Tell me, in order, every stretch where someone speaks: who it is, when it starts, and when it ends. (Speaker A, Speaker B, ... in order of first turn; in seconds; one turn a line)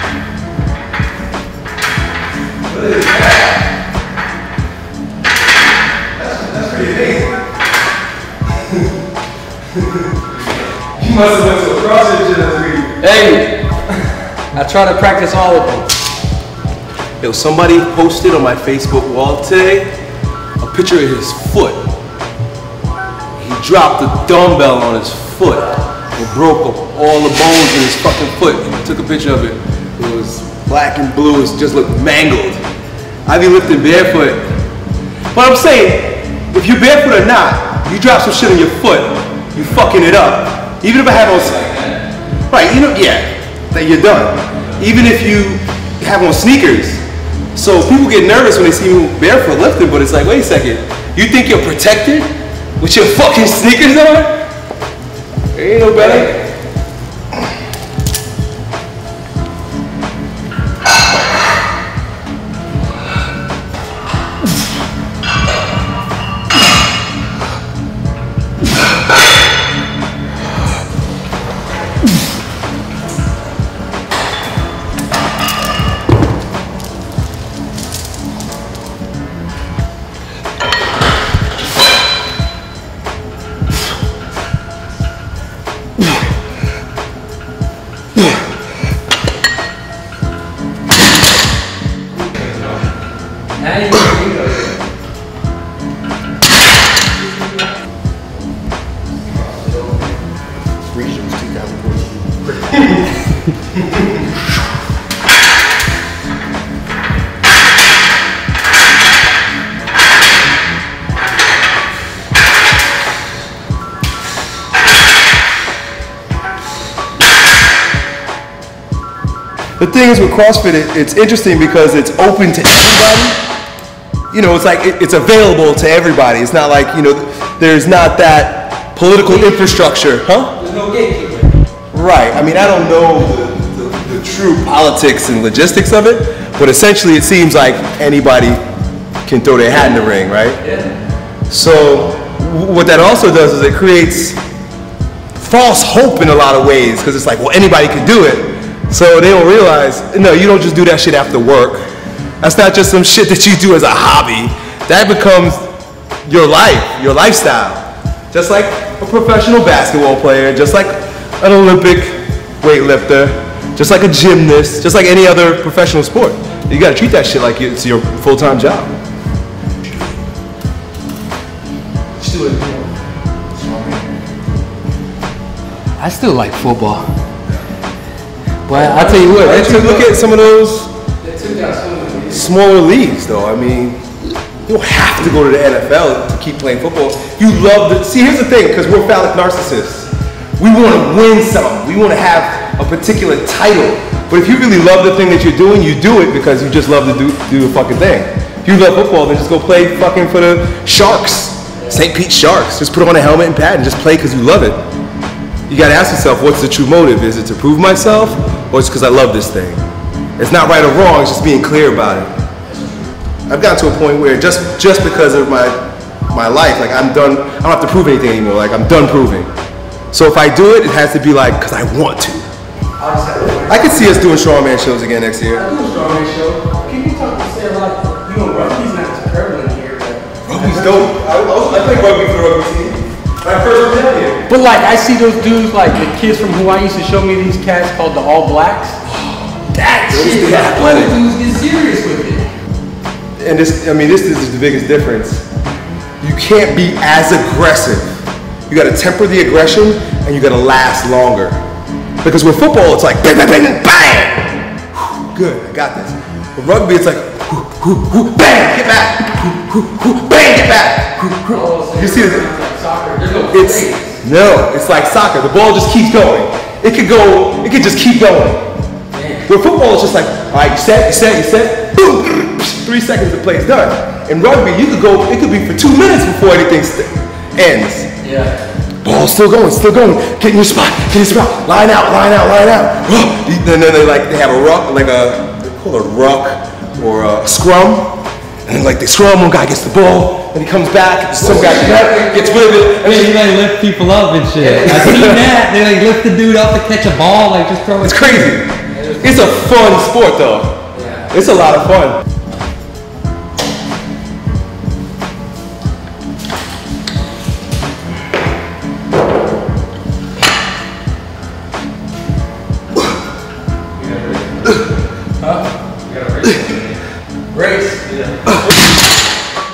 Speaker A: 2.6-3.6
Speaker A: 6.2-7.5
Speaker A: 8.5-9.0
Speaker A: 9.7-10.2
Speaker A: 11.0-13.0
Speaker B: 13.0-13.6
Speaker B: 14.5-15.9
Speaker A: 17.2-19.9
Speaker A: 20.6-21.8
Speaker A: 23.4-32.6
Speaker A: 33.3-34.5
Speaker A: 35.3-41.8
Speaker A: 42.5-47.0
Speaker A: 47.5-54.4
Speaker A: 55.5-56.3
Speaker B: 56.0-56.4
Speaker B: 92.3-92.8
Speaker B: 93.5-94.8
Speaker B: 99.3-100.1
Speaker B: 101.2-103.0
Speaker A: 119.8-123.4
Speaker A: 124.3-130.5
Speaker B: 129.2-129.7
Speaker B: 130.6-131.5
Speaker A: 131.9-138.6
Speaker A: 139.3-140.6
Speaker B: 140.6-140.9
Speaker A: 141.5-144.4
Speaker A: 145.4-151.8
Speaker A: 152.4-155.7
Speaker A: 156.2-168.9
Speaker B: 172.2-172.9
Speaker A: 173.5-174.1
Speaker B: 176.0-177.1
Speaker B: 178.7-180.2
Speaker A: 178.7-180.9
Speaker B: 181.2-182.5
Speaker A: 182.3-184.1
Speaker A: 184.7-204.8
Speaker B: 201.8-202.0
Speaker A: 205.7-209.8
Speaker A: 210.4-212.3
Speaker A: 213.5-219.5
Speaker A: 220.1-222.5
Speaker B: 223.0-224.3
Speaker A: 223.7-225.7
Speaker B: 225.5-231.1
Speaker A: 230.5-234.4
Speaker B: 234.5-239.0
Speaker B: 239.7-242.5
Speaker A: 240.1-241.2
Speaker A: 243.4-245.4
Speaker A: 246.2-251.6
Speaker A: 252.2-262.5
Speaker B: 261.5-264.2
Speaker A: 263.5-268.7
Speaker B: 269.1-269.5
Speaker A: 269.5-278.1
Speaker B: 278.2-278.6
Speaker A: 279.0-293.5
Speaker B: 291.4-292.7
Speaker C: 292.9-298.6
Speaker B: 294.6-295.0
Speaker A: 294.8-295.5
Speaker A: 298.0-302.2
Speaker B: 298.9-299.6
Speaker B: 300.9-301.3
Speaker B: 314.0-314.4
Speaker B: 315.4-316.4
Speaker B: 317.5-318.6